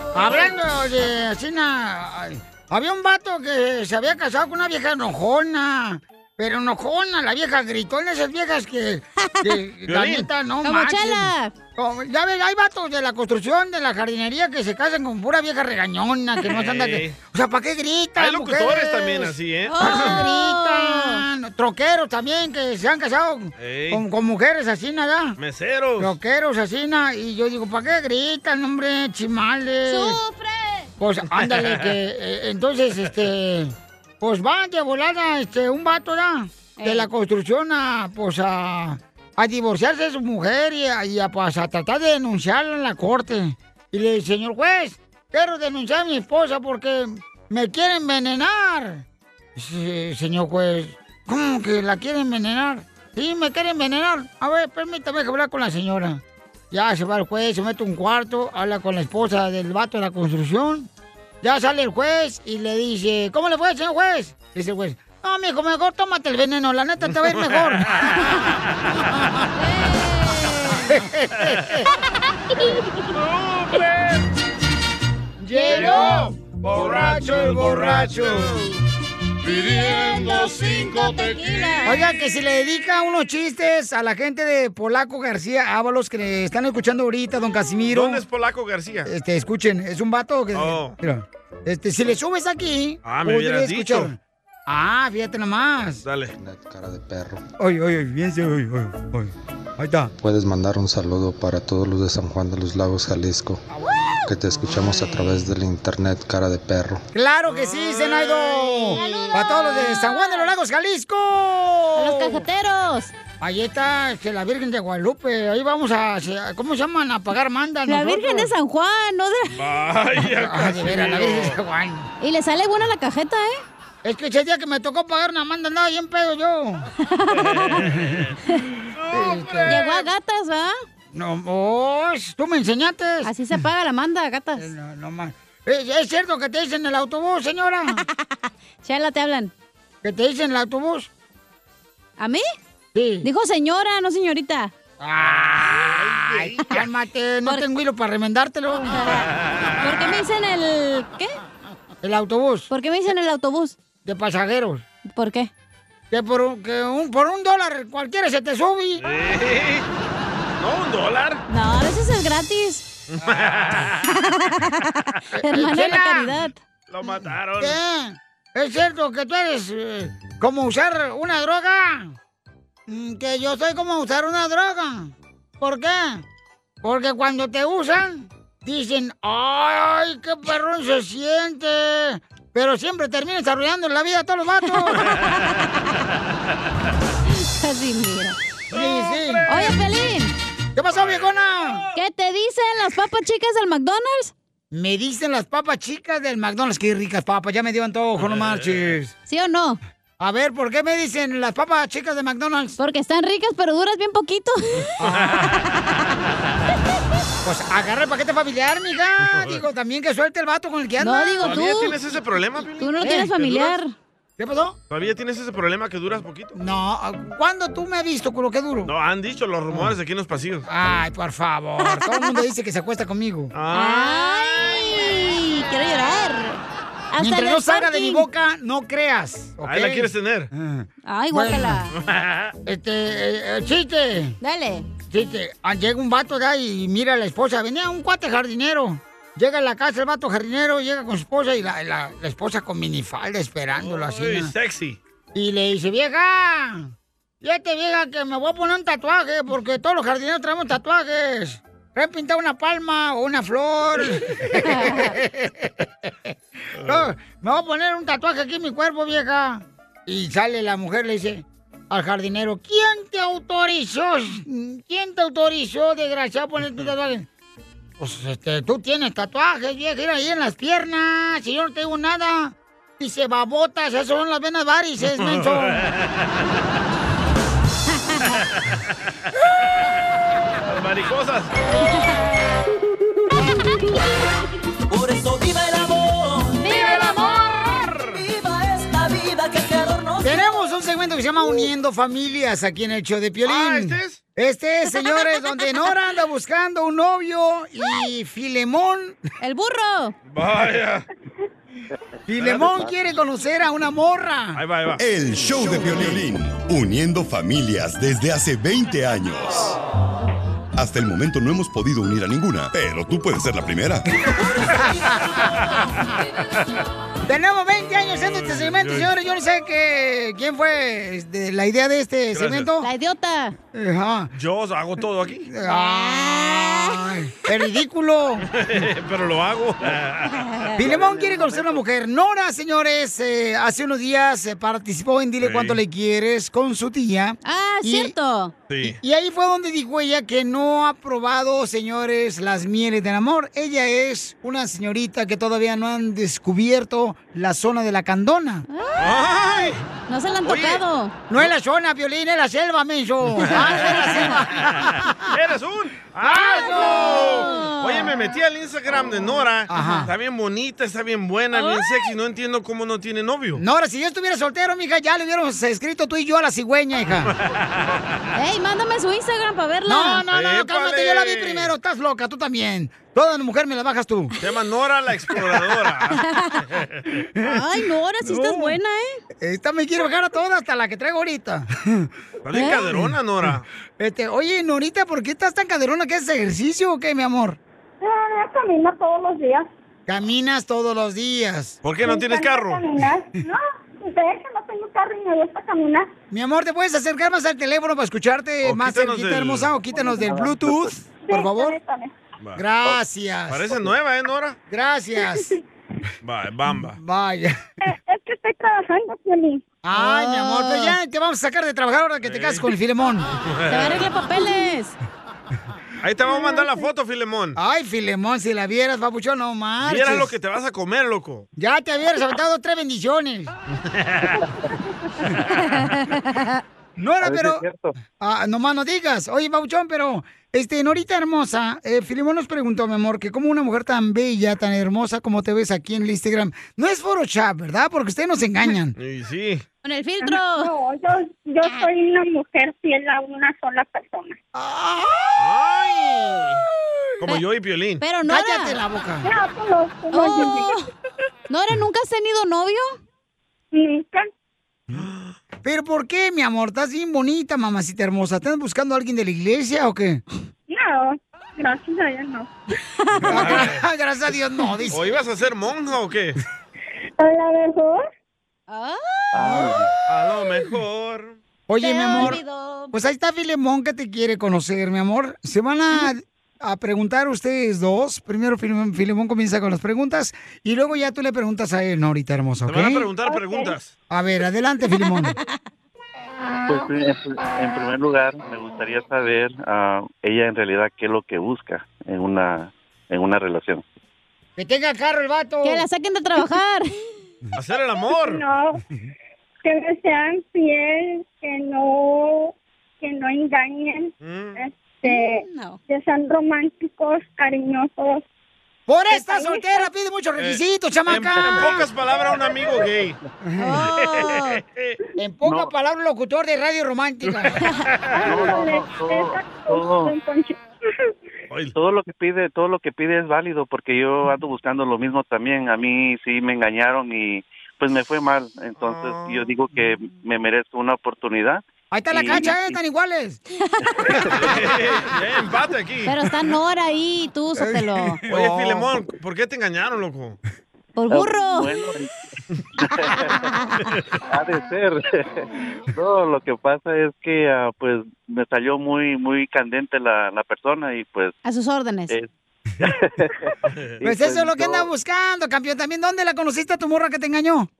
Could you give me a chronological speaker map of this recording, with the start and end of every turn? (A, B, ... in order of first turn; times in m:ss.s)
0:00.1-0:25.4 A
0:09.9-0:10.3 B
0:10.6-0:11.6 C
0:16.5-0:17.2 B
0:18.2-0:20.2 B
0:19.7-0:21.2 C
0:23.6-0:24.0 B
0:25.4-0:26.1 B
0:26.0-0:30.2 A
0:29.8-0:30.9 C
0:31.0-0:49.0 A
0:31.4-0:31.9 B
0:36.8-0:37.1 C
0:49.6-1:00.9 A
1:01.4-1:08.1 A
1:07.3-1:08.1 B
1:09.6-1:10.8 C
1:10.9-1:11.9 A
1:13.1-1:14.3 B
1:15.4-1:18.7 A
1:15.6-1:16.2 C
1:15.7-1:18.7 B
1:19.4-1:22.1 C
1:19.5-1:21.3 B
1:21.8-1:28.2 A
1:27.9-1:29.1 B
1:29.0-1:36.0 A
1:30.5-1:31.0 B
1:33.0-1:34.1 B
1:36.0-1:36.4 B
1:36.4-1:37.4 D
1:37.6-1:40.1 A
1:40.2-1:43.6 D
1:43.7-1:44.2 A
1:44.3-1:47.0 D
1:44.8-1:45.2 B
1:47.1-1:52.4 A
1:47.5-1:49.0 B
1:48.9-1:50.5 C
1:52.0-1:53.1 C
1:53.4-1:58.5 A
1:57.8-1:59.6 C
1:59.5-2:01.6 B
2:00.2-2:02.1 A
2:02.2-2:03.6 C
2:04.0-2:06.9 A
2:07.0-2:07.8 C
2:07.3-2:08.3 B
2:07.8-2:08.3 A
2:08.9-2:09.8 B
2:09.1-2:10.0 A
2:09.6-2:10.7 C
2:11.1-2:13.6 A
2:13.2-2:14.6 C
2:14.6-2:18.0 A
2:18.8-2:19.5 C
2:20.0-2:21.1 A
2:22.2-2:22.4 C
2:22.9-2:23.3 A
2:23.2-2:24.7 C
2:25.0-2:29.1 A
2:26.0-2:26.4 B
2:28.9-2:29.3 C
2:29.5-2:29.8 B
2:29.8-2:31.3 C
2:32.0-2:32.7 A
2:32.7-2:33.8 C
2:34.0-2:34.8 A
2:35.1-2:35.5 C
2:36.1-2:39.0 A
2:39.0-2:39.8 B
2:40.6-2:41.4 B
2:41.5-2:42.8 C
2:43.1-2:44.0 B
2:43.2-2:43.6 A
2:44.1-2:46.6 C
2:45.4-2:46.4 A
2:46.9-2:47.8 B
2:47.6-2:52.2 A
2:52.9-2:56.2 A
2:56.8-3:05.2 A
3:04.7-3:05.9 C
3:07.3-3:08.4 C
3:08.7-3:09.8 A
3:08.7-3:09.7 B
3:09.5-3:10.3 C
3:10.8-3:11.9 A
3:10.9-3:11.5 B
3:11.9-3:14.3 C
3:14.7-3:19.1 A
3:18.2-3:18.8 B
3:19.2-3:19.8 C
3:20.2-3:22.8 A
3:22.8-3:24.9 C
3:25.0-3:25.5 A
3:25.0-3:25.5 B
3:25.6-3:26.0 C
3:27.4-3:31.6 A
3:29.2-3:29.6 B
3:31.0-3:32.0 C
3:31.4-3:33.8 B
3:32.8-3:33.9 C
3:33.0-3:33.3 A
3:34.4-3:34.8 A
3:34.9-3:36.6 B
3:36.5-3:38.9 A
3:38.8-3:40.6 B
3:39.7-3:40.0 A
3:40.6-3:43.6 A
3:43.5-3:44.2 B
3:43.7-3:46.6 C
3:47.1-3:48.2 C
3:47.2-3:51.8 A
3:49.6-3:50.5 B
3:51.0-3:51.9 C
3:51.9-3:52.5 B
3:52.6-3:54.4 A
3:54.4-3:54.8 C
3:55.0-4:04.5 A
4:03.8-4:05.0 B
4:05.3-4:15.7 A
4:14.6-4:15.1 C
4:16.3-4:27.3 A
4:28.0-4:35.9 A
4:35.2-4:36.2 B
4:40.6-4:41.5 B
4:44.9-4:46.8 E
4:46.6-4:47.7 C
4:47.5-4:50.4 E
4:47.6-4:48.2 B
4:50.2-4:59.2 A
4:53.4-4:54.2 B
4:59.4-5:00.1 C
5:00.2-5:01.0 B
5:02.3-5:04.6 A
5:02.4-5:02.8 B
5:04.5-5:06.2 B
5:05.0-5:09.8 F
5:10.8-5:14.0 F
5:14.7-5:15.4 A
5:17.2-5:22.9 A
5:18.4-5:19.1 B
5:22.3-5:22.7 B
5:22.8-5:23.5 C
5:23.7-5:24.3 A
5:24.3-5:25.5 B
5:25.5-5:28.5 A
5:25.6-5:27.0 C
5:28.5-5:31.8 B
5:30.4-5:31.0 C
5:30.8-5:38.1 A
5:35.4-5:35.8 B
5:37.4-5:38.5 C
5:38.7-5:39.0 B
5:38.8-5:48.6 A
5:48.7-5:51.1 C
5:49.0-5:49.8 B
5:50.4-5:50.8 B
5:51.3-5:55.3 A
5:53.5-5:54.1 B
5:53.6-5:54.3 C
5:55.3-6:03.6 B
5:56.2-5:57.5 A
5:56.4-5:58.1 C
5:59.7-6:00.1 A
6:01.5-6:02.1 C
6:03.6-6:07.3 A
6:07.3-6:08.0 B
6:08.3-6:10.2 C
6:09.8-6:14.4 A
6:10.3-6:11.7 B
6:14.4-6:17.0 B
6:16.1-6:16.6 C
6:17.4-6:18.8 A
6:17.4-6:19.2 C
6:19.4-6:22.1 A
6:22.4-6:23.6 B
6:22.5-6:22.9 C
6:22.9-6:27.6 A
6:28.0-6:29.7 G
6:30.1-6:31.8 A
6:31.8-6:32.8 B
6:32.0-6:36.1 G
6:36.3-6:41.8 A
6:38.6-6:39.7 B
6:41.2-6:42.1 G
6:42.4-6:44.6 B
6:42.6-6:43.9 A
6:44.7-6:45.5 A
6:46.2-6:47.0 B
6:46.7-6:47.5 A
6:47.8-6:49.6 G
6:49.8-6:53.3 A
6:49.9-6:50.9 C
6:52.2-6:52.7 B
6:53.4-6:54.1 B
6:53.7-6:54.9 C
6:56.0-6:57.6 B
6:56.2-6:56.9 G
6:57.6-7:00.3 A
6:59.8-7:01.5 B
7:01.6-7:03.5 A
7:03.8-7:04.4 B
7:05.6-7:06.6 C
7:07.0-7:07.6 A
7:07.2-7:07.9 H
7:08.2-7:18.9 A
7:19.0-7:19.6 B
7:19.8-7:20.7 C
7:20.2-7:24.4 G
7:24.5-7:25.4 A
7:25.4-7:26.6 B
7:27.2-7:28.0 B
7:28.0-7:28.8 C
7:28.2-7:29.2 A
7:29.2-7:30.7 G
7:30.1-7:30.9 C
7:31.5-7:33.0 C
7:33.7-7:34.3 G
7:34.9-7:35.3 B
7:35.6-7:40.2 A
7:40.7-7:42.5 G
7:43.0-7:43.6 C
7:43.2-7:45.0 A
7:43.3-7:43.8 B
7:44.9-7:46.4 B
7:47.2-7:48.0 G
7:48.7-7:49.5 C
7:49.3-7:49.9 H
7:49.4-7:49.8 A
7:50.1-7:51.4 B
7:51.7-7:52.4 A
7:51.8-7:52.9 C
7:52.9-8:03.1 A
8:02.6-8:03.9 B
8:03.2-8:03.7 G
8:04.1-8:05.3 A
8:06.7-8:13.8 H
8:14.6-8:15.8 A
8:15.6-8:17.0 C
8:17.6-8:18.4 B
8:18.1-8:18.8 G
8:19.6-8:28.2 G
8:24.2-8:24.6 B
8:25.0-8:25.8 C
8:28.9-8:31.9 A
8:29.1-8:29.9 G
8:30.4-8:33.2 B
8:33.4-8:33.8 A
8:33.6-8:34.6 C
8:34.0-8:35.0 B
8:35.2-8:37.6 A
8:35.4-8:35.7 H
8:37.8-8:38.2 B
8:38.1-8:40.6 G
8:38.2-8:40.1 H
8:41.5-8:41.7 B
8:41.7-8:52.8 H
8:48.8-8:49.5 B
8:51.9-8:53.4 A
8:53.6-8:54.0 C
8:54.0-8:54.6 H
8:54.3-8:56.2 B
8:54.4-8:55.0 A
8:56.0-8:58.2 C
8:57.6-8:59.0 A
8:58.3-9:00.4 B
9:01.0-9:01.8 C
9:01.1-9:02.1 H
9:02.8-9:03.5 H
9:03.5-9:03.8 C
9:04.3-9:11.3 H
9:11.4-9:12.1 C
9:12.8-9:14.9 H
9:13.7-9:14.0 B
9:14.0-9:17.7 A